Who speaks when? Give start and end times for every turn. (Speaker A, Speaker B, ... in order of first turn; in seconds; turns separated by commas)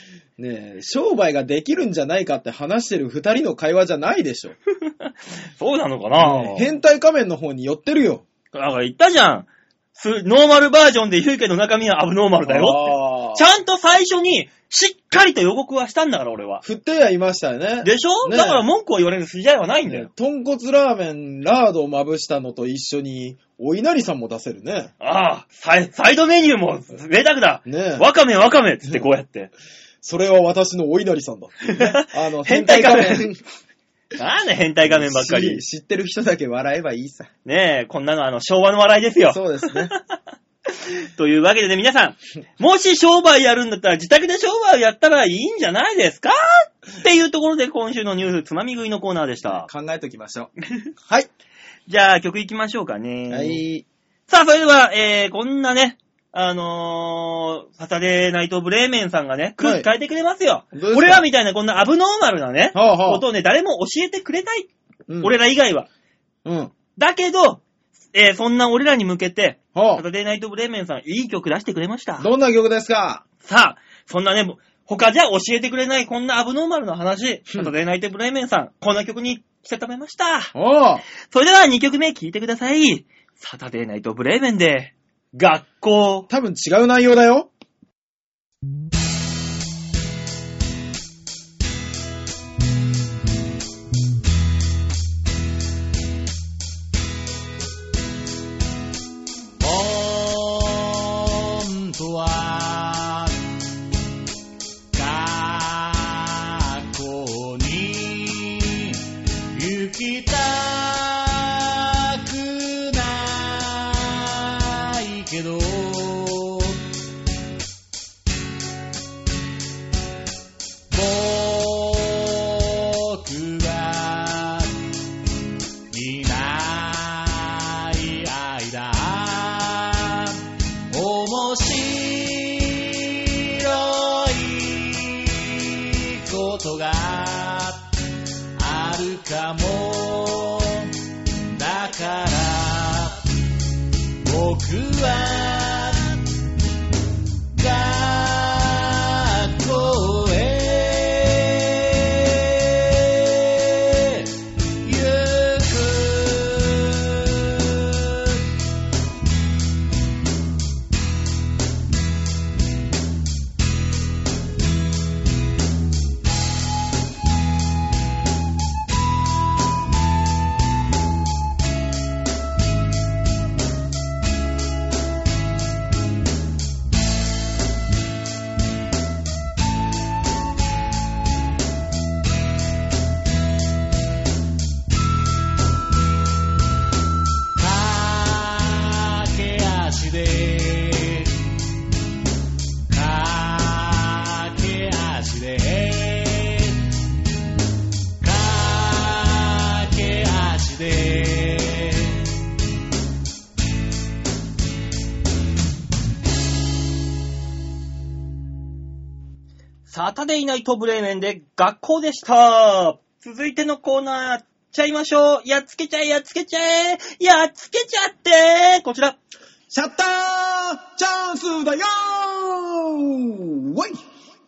Speaker A: 0.4-4.6, Speaker B: 4.8-6.7, Speaker A: 6.2-8.3, Speaker B: 8.5-16.6, Speaker A: 12.5-13.4, Speaker A: 16.6-18.7, Speaker B: 17.8-20.1, Speaker A: 19.9-24.9, Speaker B: 25.0-29.5, Speaker A: 27.6-28.1, Speaker A: 30.0-33.4, Speaker B: 31.6-33.3, Speaker B: 34.2-35.6, Speaker A: 34.9-37.3, Speaker B: 37.5-39.8, Speaker A: 39.3-40.0, Speaker B: 40.7-49.7, Speaker A: 49.4-50.5, Speaker B: 51.9-53.6, Speaker A: 53.3-53.9, Speaker B: 54.3-64.7, Speaker A: 59.6-59.9, Speaker A: 60.7-61.2, Speaker A: 62.7-63.2, Speaker A: 65.1-65.3, Speaker B: 65.2-65.9, Speaker A: 66.5-66.7, Speaker B: 67.0-67.6, Speaker B: 68.1-72.3, Speaker A: 69.8-70.0, Speaker A: 72.2-73.2, Speaker B: 73.4-80.5, Speaker A: 80.5-81.0, Speaker B: 81.3-86.3, Speaker A: 86.3-87.5, Speaker C: 99.6-103.4, Speaker C: 104.9-116.8, Speaker C: 120.9-124.8, Speaker C: 125.9-130.4, Speaker C: 130.9-137.9, Speaker C: 138.6-143.2, Speaker C: 144.2-146.2, Speaker C: 147.5-154.3, Speaker C: 154.8-158.4, Speaker C: 187.6-191.5, Speaker C: 192.9-196.9, Speaker C: 198.2-202.3, Speaker B: 209.9-219.2, Speaker A: 219.7-224.0